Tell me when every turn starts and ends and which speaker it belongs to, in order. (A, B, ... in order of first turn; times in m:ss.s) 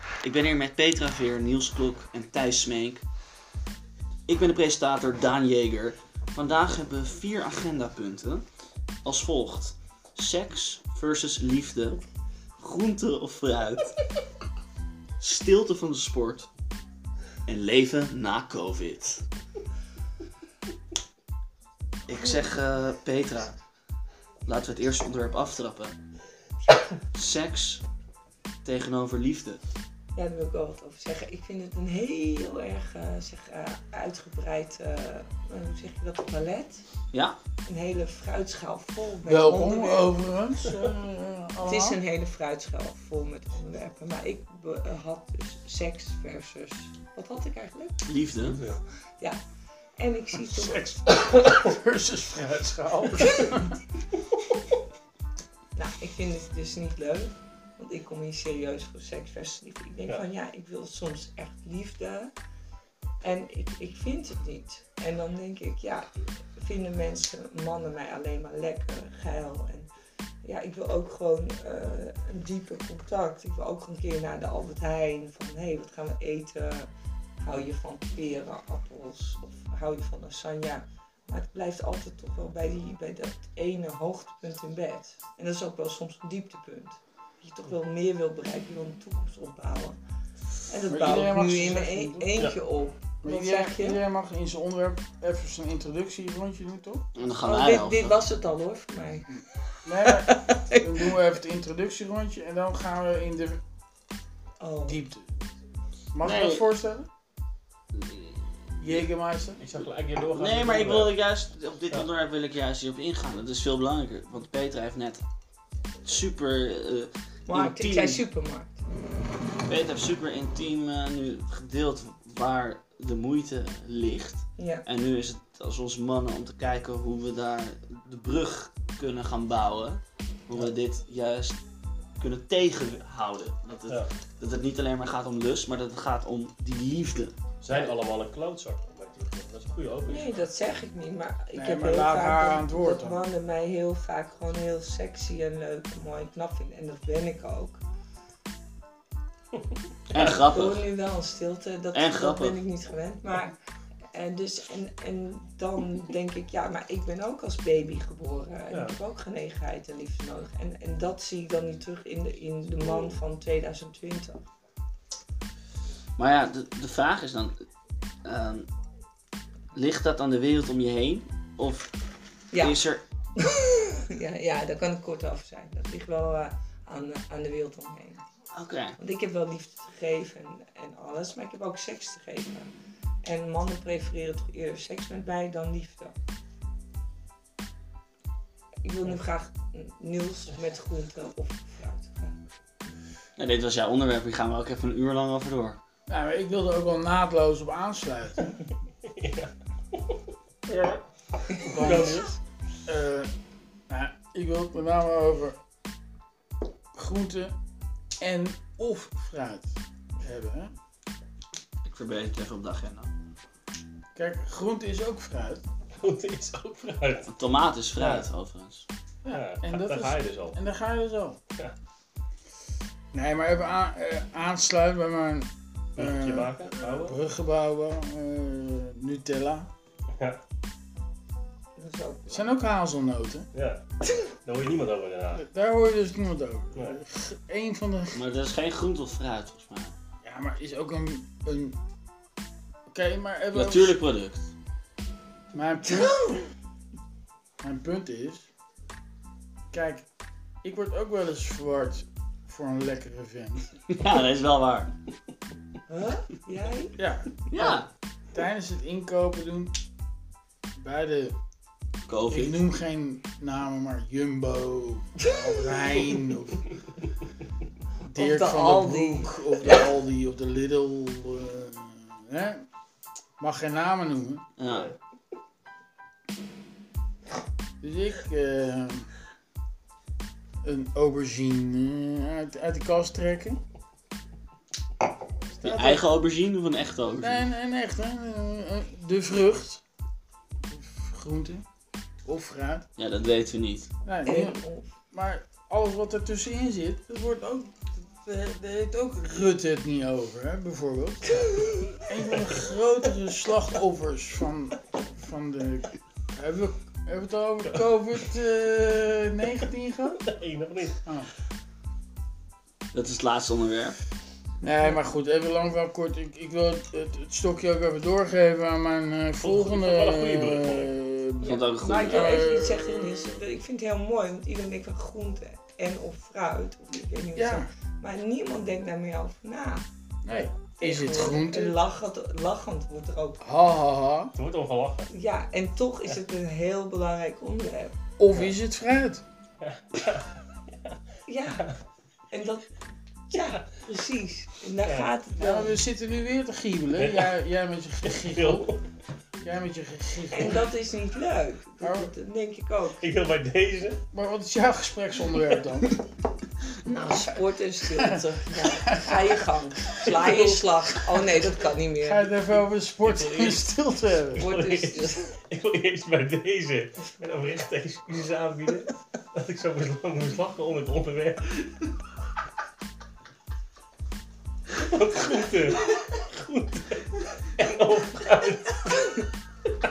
0:00.2-0:03.0 A
0:04.3-0:08.4 A
0:09.0-0:12.0 A
0:12.6-0:14.0 A
0:15.2-0:16.5 A
0:17.5-0:19.2 A
0:22.1-0:23.6 A
0:24.5-0:26.0 A
0:27.1-0:27.8 A
0:28.6-0:29.6 A
0:30.2-0:36.8 B
0:37.1-0:37.4 A
0:37.6-0:40.1 B
0:39.2-0:42.0 C
0:41.6-0:48.0 B
0:48.1-0:48.6 A
0:48.4-0:48.8 D
0:50.0-0:51.5 B
0:51.3-0:53.8 C
0:55.8-1:02.3 B
1:03.2-1:09.9 B
1:10.4-1:30.0 B
1:30.7-1:34.0 B
1:30.9-1:32.4 C
1:33.2-1:37.0 C
1:37.2-1:38.2 A
1:37.4-1:39.4 B
1:39.8-1:43.6 C
1:40.1-1:40.8 B
1:44.6-1:45.0 B
1:44.9-1:45.3 C
1:46.1-1:47.1 C
1:46.2-1:46.7 A
1:48.0-1:48.3 A
1:48.8-1:49.6 C
1:49.6-1:51.2 D
1:50.3-1:55.2 A
1:56.0-1:58.2 A
1:57.5-1:58.8 B
1:59.6-2:11.6 A
2:04.6-2:04.8 B
2:12.2-2:17.4 A
2:17.6-2:20.4 D
2:20.1-2:27.8 B
2:21.6-2:23.3 C
2:30.1-2:30.9 A
2:30.2-2:33.5 B
2:31.9-2:32.6 A
2:34.1-2:44.4 B
2:42.8-2:43.2 D
2:46.2-2:47.6 A
2:48.2-2:48.7 A
2:49.7-2:51.9 A
2:52.5-2:58.2 B
2:52.6-2:53.0 A
2:58.5-2:59.0 A
2:59.0-3:02.7 B
3:03.2-3:06.2 B
3:08.8-3:12.4 B
3:13.4-3:15.8 A
3:16.1-3:18.6 C
3:19.0-3:20.2 D
3:20.7-3:21.0 C
3:21.6-3:22.4 D
3:21.6-3:22.0 B
3:21.7-3:22.2 C
3:22.9-3:23.3 C
3:23.9-3:25.6 C
3:26.9-3:27.5 C
3:28.2-3:30.7 C
3:31.8-3:33.1 A
3:34.2-3:35.6 C
3:36.0-3:37.3 D
3:37.3-3:38.8 A
3:37.9-3:38.3 D
3:39.2-3:41.4 C
3:39.3-3:40.6 D
3:43.1-3:49.7 C
3:46.0-3:47.2 D
3:51.8-3:52.5 B
3:52.3-3:53.5 C
3:53.5-3:53.8 D
3:54.4-3:55.4 D
3:55.3-3:58.2 C
3:58.1-4:00.0 A
4:00.2-4:01.8 C
4:02.9-4:04.0 C
4:03.5-4:04.5 A
4:05.5-4:06.3 C
4:05.9-4:06.5 B
4:07.6-4:08.5 C
4:09.7-4:10.0 C
4:10.6-4:13.8 C
4:13.9-4:15.0 A
4:15.9-4:17.0 B
4:17.0-4:19.8 C
4:17.6-4:17.9 A
4:20.8-4:21.4 C
4:22.1-4:22.6 A
4:22.3-4:26.7 C
4:28.0-4:32.7 C
4:28.2-4:29.8 B
4:33.4-4:34.4 C
4:34.6-4:34.9 A
4:34.7-4:35.0 D
4:37.8-4:39.1 C
4:40.6-4:43.6 C
4:45.6-4:46.0 C
4:45.6-4:47.4 A
4:47.2-4:49.8 C
4:50.7-4:51.6 C
4:52.2-4:52.9 C
4:53.0-4:53.9 A
4:54.0-5:10.2 C
4:54.2-4:54.9 B
5:01.3-5:02.0 B
5:10.2-5:11.0 D
5:11.0-5:11.3 C
5:12.9-5:14.0 A
5:14.6-5:23.4 C
5:19.4-5:20.9 D
5:21.4-5:22.4 A
5:21.8-5:29.8 B
5:27.4-5:27.7 C
5:30.3-5:31.8 C
5:30.8-5:33.4 B
5:33.4-5:34.3 C
5:34.4-5:35.1 D
5:35.1-5:38.0 B
5:38.2-5:39.2 C
5:39.6-5:40.9 D
5:41.3-5:41.6 B
5:42.3-5:42.7 B
5:43.3-5:45.8 B
5:44.8-5:45.1 D
5:45.4-5:48.7 C
5:47.0-5:47.4 D
5:48.0-5:48.8 D
5:49.4-5:50.7 C
5:50.3-5:53.1 B
5:51.8-5:52.1 C
5:53.0-5:54.0 D
5:54.1-5:56.0 C
5:56.8-6:02.3 B
5:58.0-5:59.4 C
6:00.1-6:00.6 D
6:02.0-6:04.5 C
6:03.0-6:11.9 D
6:04.4-6:05.4 B
6:14.7-6:19.3 D